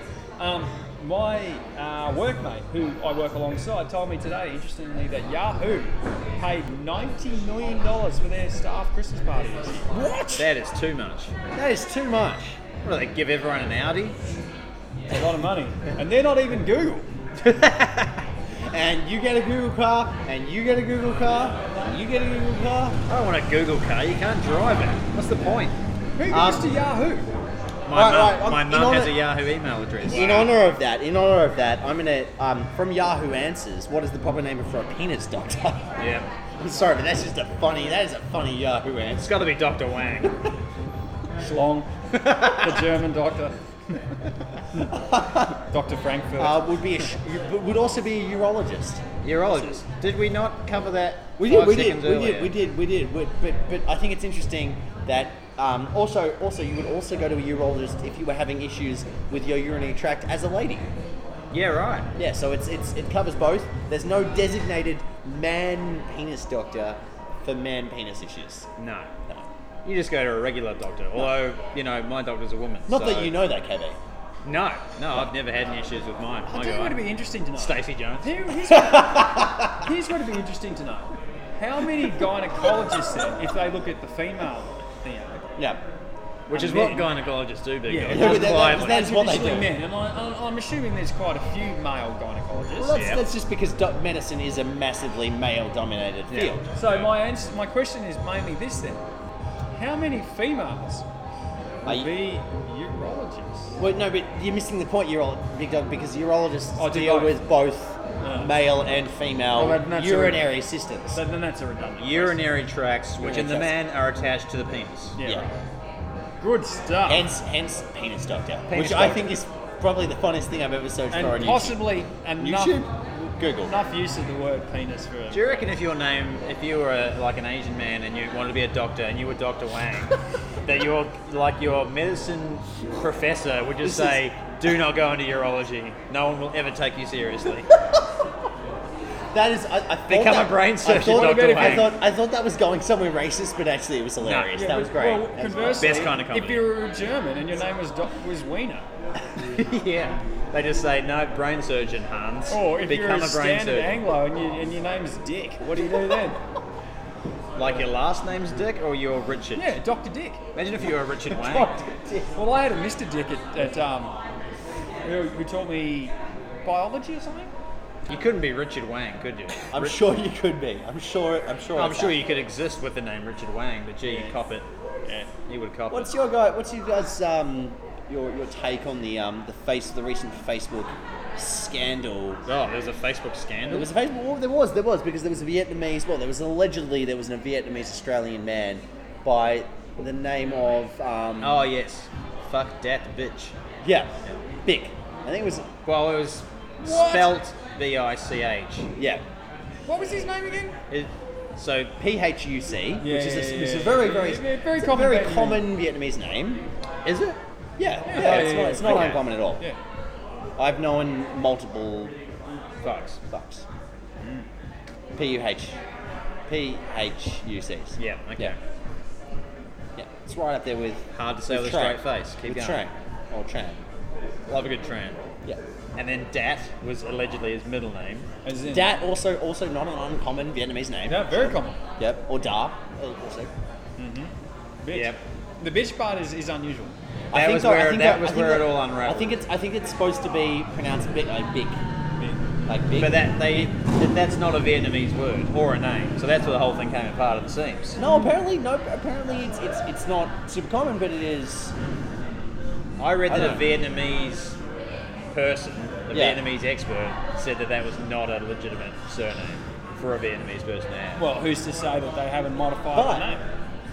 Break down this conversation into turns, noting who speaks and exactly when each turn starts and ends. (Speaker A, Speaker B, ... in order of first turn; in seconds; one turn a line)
Speaker A: 0.4-10.4
Speaker B: 10.3-11.3
Speaker C: 11.5-12.6
Speaker B: 12.8-14.2
Speaker A: 15.1-17.1
Speaker B: 17.4-18.2
Speaker C: 18.7-23.0
Speaker B: 23.1-25.7
Speaker A: 26.1-27.3
Speaker C: 26.3-26.6
Speaker B: 27.9-30.5
Speaker C: 27.9-29.2
Speaker C: 30.1-36.0
Speaker B: 36.0-36.3
Speaker C: 36.6-39.3
Speaker B: 39.2-40.3
Speaker A: 41.4-41.9
Speaker B: 42.1-42.9
Speaker A: 42.4-44.0
Speaker C: 44.9-45.5
Speaker A: 45.6-46.6
Speaker C: 46.4-49.0
Speaker B: 49.2-52.5
Speaker C: 51.4-60.9
Speaker B: 61.5-62.1
Speaker C: 62.1-68.7
Speaker B: 68.8-69.1
Speaker B: 69.8-73.3
Speaker C: 72.9-74.0
Speaker B: 74.4-77.0
Speaker A: 76.5-85.4
Speaker B: 77.5-78.3
Speaker C: 78.7-79.8
Speaker C: 85.5-85.8
Speaker B: 86.5-89.0
Speaker A: 86.5-87.1
Speaker A: 87.8-93.0
Speaker C: 88.0-89.7
Speaker C: 92.7-96.7
Speaker B: 92.9-93.2
Speaker B: 96.3-97.1
Speaker A: 96.7-99.0
Speaker A: 99.7-101.0
Speaker A: 101.8-103.8
Speaker C: 101.8-102.1
Speaker C: 103.8-111.2
Speaker A: 106.8-107.3
Speaker A: 108.2-108.5
Speaker A: 109.5-110.6
Speaker A: 111.1-112.4
Speaker B: 112.0-115.2
Speaker C: 113.2-113.7
Speaker A: 115.2-115.5
Speaker A: 116.4-117.3
Speaker C: 117.0-121.8
Speaker B: 118.7-119.3
Speaker A: 121.1-122.8
Speaker C: 122.4-123.7
Speaker A: 123.7-125.6
Speaker B: 125.3-137.7
Speaker C: 133.8-134.2
Speaker C: 139.3-146.1
Speaker B: 140.1-141.9
Speaker A: 140.9-141.9
Speaker B: 144.2-144.6
Speaker A: 144.5-148.9
Speaker B: 145.8-146.7
Speaker B: 149.5-154.0
Speaker A: 152.5-156.4
Speaker B: 157.6-159.8
Speaker A: 159.5-160.4
Speaker B: 160.5-161.7
Speaker C: 160.8-162.3
Speaker A: 162.3-164.1
Speaker A: 165.0-166.1
Speaker A: 166.6-167.5
Speaker B: 168.1-169.9
Speaker C: 169.7-172.2
Speaker B: 171.7-174.7
Speaker A: 174.1-174.3
Speaker B: 175.5-176.1
Speaker C: 175.9-182.4
Speaker B: 182.4-183.9
Speaker C: 183.7-191.7
Speaker B: 191.4-193.5
Speaker C: 193.8-195.7
Speaker B: 195.8-198.9
Speaker A: 196.8-197.4
Speaker C: 199.0-199.2
Speaker A: 199.9-200.8
Speaker B: 200.9-201.9
Speaker C: 202.0-206.6
Speaker A: 203.0-205.6
Speaker B: 207.0-207.4
Speaker C: 207.8-209.6
Speaker A: 208.0-209.8
Speaker B: 208.1-209.2
Speaker C: 210.6-212.1
Speaker B: 212.8-213.2
Speaker C: 213.2-213.7
Speaker A: 214.2-214.5
Speaker C: 215.1-215.8
Speaker C: 216.5-218.6
Speaker B: 218.0-218.6
Speaker C: 219.9-223.8
Speaker B: 221.1-222.8
Speaker B: 224.5-225.2
Speaker B: 225.9-228.3
Speaker A: 228.4-228.9
Speaker C: 228.7-233.5
Speaker A: 231.1-231.8
Speaker A: 234.0-234.3
Speaker A: 234.8-236.9
Speaker B: 234.9-235.2
Speaker C: 237.3-241.8
Speaker B: 237.3-239.3
Speaker A: 242.2-242.4
Speaker C: 242.7-243.7
Speaker B: 243.0-248.0
Speaker C: 248.0-251.7
Speaker B: 253.0-254.6
Speaker C: 253.3-253.7
Speaker B: 255.3-261.2
Speaker C: 256.1-256.4
Speaker A: 261.2-263.4
Speaker C: 262.9-263.2